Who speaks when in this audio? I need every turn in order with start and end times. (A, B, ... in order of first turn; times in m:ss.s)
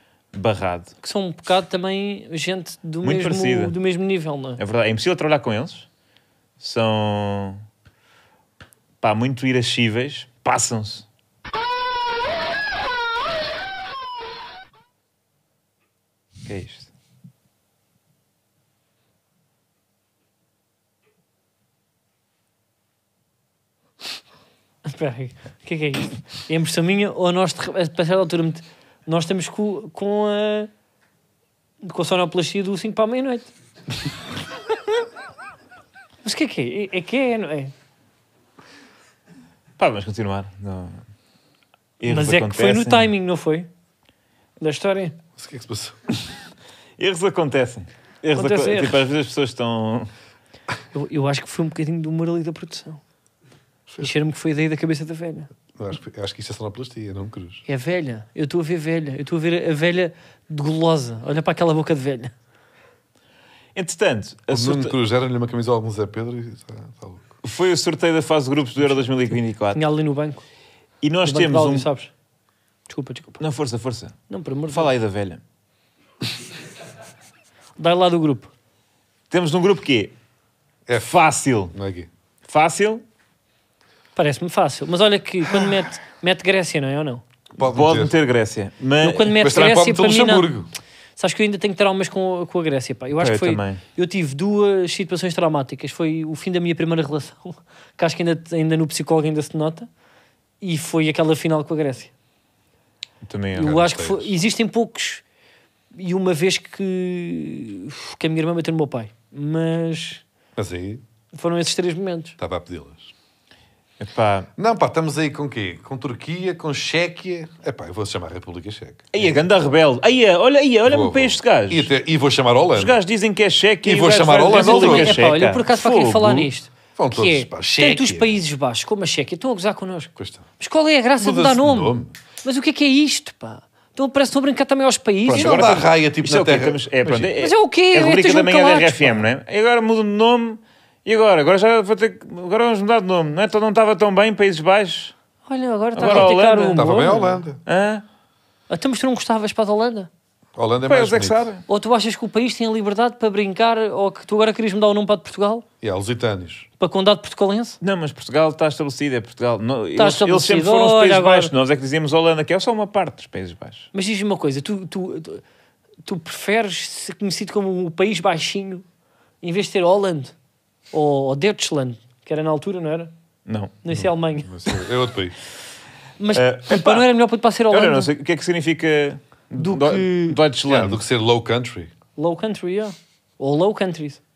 0:00.3-0:00.9 A
0:01.0-0:04.6 B
0:03.0-0:03.7 A
0:04.6-0:05.9 A
0:06.6-0:07.6 A
0:09.0-0:11.0 A
0:16.4-0:16.9 A
0:24.8-0:30.7 B
0:31.8-0:33.5 B
0:36.2-0:37.7 B
0:39.8-0:41.0 A
0:42.0-0:43.1 A
0:42.1-0:43.7 B
0:44.6-0:45.2 B
0:45.4-0:45.9 C
0:47.0-0:50.1 A
0:48.3-0:49.0 B
0:50.9-0:53.0 B
0:54.0-0:55.5 B
0:55.7-0:57.6 C
0:57.7-1:02.3 B
1:03.7-1:04.9 A
1:04.5-1:07.4 C
1:07.4-1:09.8 A
1:09.7-1:10.4 B
1:11.0-1:11.9 A
1:11.2-1:12.1 B
1:12.9-1:13.4 B
1:13.4-1:14.2 A
1:14.3-1:14.9 B
1:14.7-1:15.4 A
1:17.8-1:18.5 B
1:19.3-1:20.1 A
1:20.9-1:21.2 C
1:20.9-1:21.7 A
1:21.7-1:22.1 C
1:22.4-1:23.0 A
1:24.2-1:27.2 B
1:27.6-1:28.1 C
1:27.6-1:29.6 A
1:29.0-1:30.5 B
1:29.4-1:30.7 C
1:31.2-1:39.9 B
1:33.2-1:33.8 A
1:40.6-1:42.1 B
1:43.2-1:43.9 A
1:43.6-1:45.2 B
1:43.6-1:44.3 C
1:45.9-1:50.2 B
1:50.6-1:51.0 C
1:51.3-1:52.4 B
1:52.4-1:53.1 C
1:54.0-1:54.5 A
1:54.6-1:59.4 C
1:59.1-2:01.9 A
2:00.9-2:03.0 C
2:02.7-2:06.5 A
2:03.8-2:05.3 C
2:04.5-2:15.8 B
2:07.0-2:08.4 C
2:10.2-2:10.4 C
2:11.2-2:12.1 C
2:15.2-2:17.3 C
2:15.3-2:25.1 A
2:17.4-2:19.2 B
2:25.5-2:27.4 B
2:25.9-2:27.1 A
2:26.1-2:27.6 C
2:27.6-2:28.0 A
2:28.7-2:30.1 B
2:30.6-2:31.5 C
2:30.8-2:31.6 A
2:31.7-2:35.6 B
2:35.8-2:36.7 C
2:36.8-2:37.8 B
2:37.8-2:43.9 A
2:40.0-2:41.5 B
2:43.9-2:45.4 B
2:46.0-2:48.8 B
2:49.4-2:50.3 B
2:50.9-2:53.1 B
2:53.4-2:53.7 A
2:53.8-2:54.5 B
2:53.9-2:55.4 C
2:56.2-2:58.1 B
2:56.3-2:57.1 A
2:57.7-3:01.0 A
2:59.6-3:00.4 B
3:00.7-3:01.9 C
3:02.2-3:04.2 B